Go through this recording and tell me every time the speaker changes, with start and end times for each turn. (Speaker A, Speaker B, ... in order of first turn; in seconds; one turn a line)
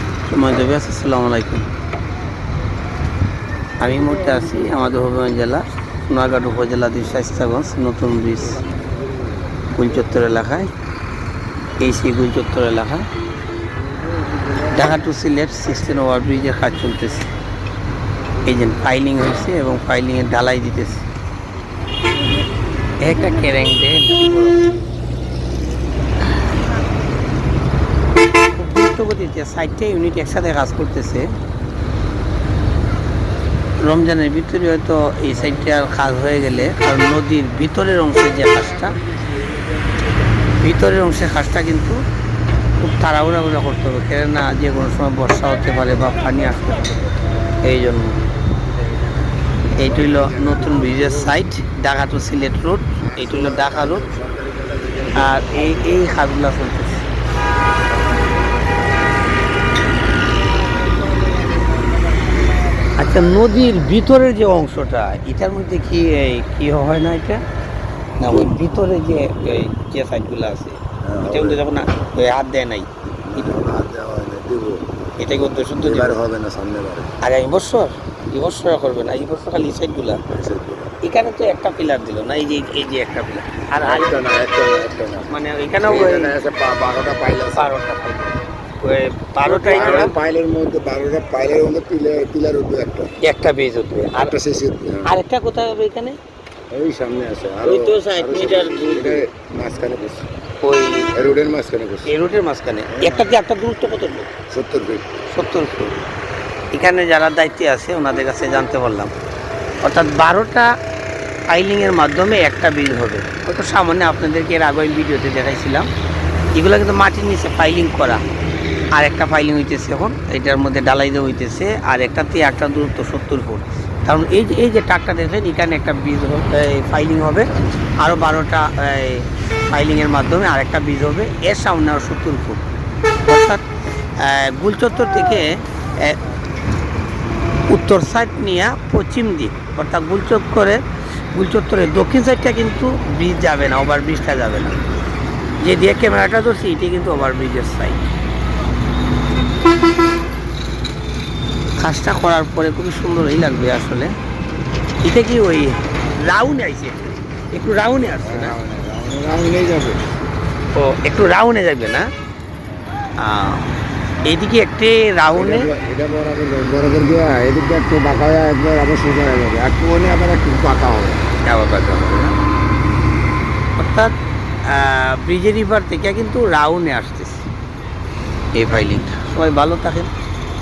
Speaker A: 0.3-1.6
Speaker A: 3.8-8.6
Speaker A: 9.7-10.7
Speaker A: 11.8-13.0
Speaker A: 14.7-17.3
Speaker A: 18.4-21.1
Speaker A: 23.0-24.7
Speaker A: 28.6-31.3
Speaker A: 33.8-39.0
Speaker A: 40.6-42.0
Speaker A: 42.8-47.0
Speaker A: 47.6-48.2
Speaker A: 49.8-54.0
Speaker B: 50.1-50.5
Speaker B: 53.0-56.2
Speaker A: 55.2-57.0
Speaker B: 58.1-58.3
Speaker A: 63.0-67.4
Speaker A: 68.2-73.6
Speaker B: 71.0-71.6
Speaker B: 73.2-74.8
Speaker A: 75.2-76.2
Speaker B: 75.8-77.1
Speaker A: 77.2-80.2
Speaker B: 80.3-80.9
Speaker A: 81.0-84.2
Speaker B: 83.8-85.3
Speaker A: 85.3-86.3
Speaker B: 85.8-87.7
Speaker A: 87.5-90.1
Speaker B: 89.4-93.1
Speaker A: 93.2-94.3
Speaker B: 94.1-95.1
Speaker A: 95.0-96.2
Speaker B: 96.7-100.2
Speaker A: 97.6-99.2
Speaker A: 100.6-101.1
Speaker B: 101.1-102.1
Speaker A: 102.0-104.3
Speaker B: 102.9-103.3
Speaker B: 104.5-105.1
Speaker A: 105.3-106.0
Speaker A: 106.7-109.1
Speaker A: 109.8-110.7
Speaker A: 111.5-115.9
Speaker A: 116.5-118.2
Speaker A: 119.0-127.5
Speaker A: 128.0-132.6
Speaker A: 133.2-133.6
Speaker A: 134.2-136.2
Speaker A: 137.7-144.9
Speaker A: 145.6-148.1
Speaker A: 151.8-154.1
Speaker A: 155.0-157.0
Speaker A: 157.5-158.5
Speaker B: 158.2-160.0
Speaker A: 160.7-162.1
Speaker A: 163.2-163.7
Speaker A: 164.2-165.7
Speaker B: 165.3-171.2
Speaker A: 171.5-172.3
Speaker A: 173.8-174.1
Speaker A: 174.7-177.5
Speaker A: 178.6-180.1